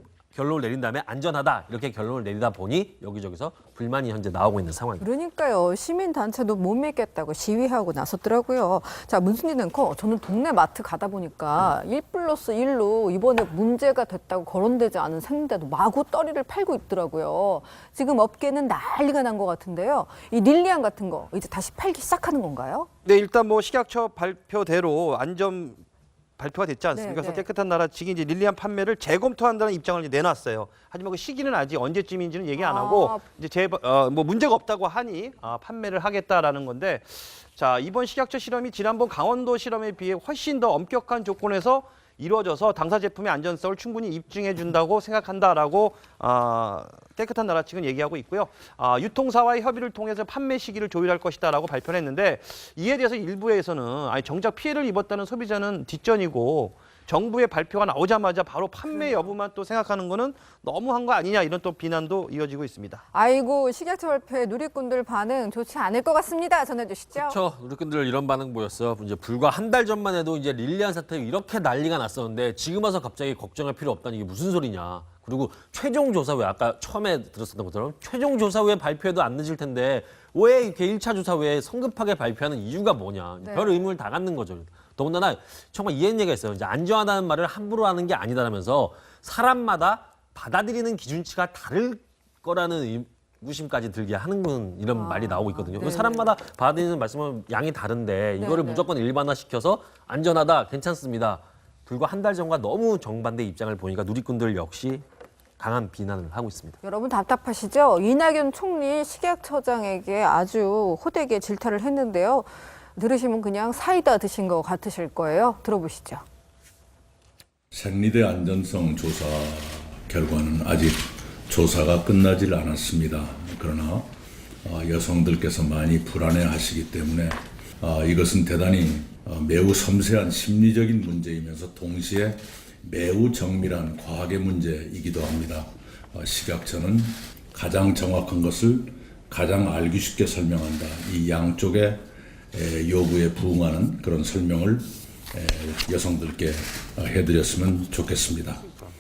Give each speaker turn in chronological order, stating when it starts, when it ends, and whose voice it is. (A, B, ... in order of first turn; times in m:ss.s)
0:00.3-0:05.1 A
0:05.0-0:22.9 B
0:23.0-0:25.8 C
0:26.4-1:03.0 C
0:26.9-0:27.4 B
0:32.6-0:33.2 B
0:58.9-0:59.2 B
1:03.1-1:07.4 B
1:07.1-1:45.0 A
1:23.4-1:23.8 B
1:34.9-1:36.3 B
1:38.4-1:38.9 B
1:45.6-1:46.8 A
1:46.8-1:56.2 B
1:57.7-2:04.1 D
2:04.6-2:28.6 D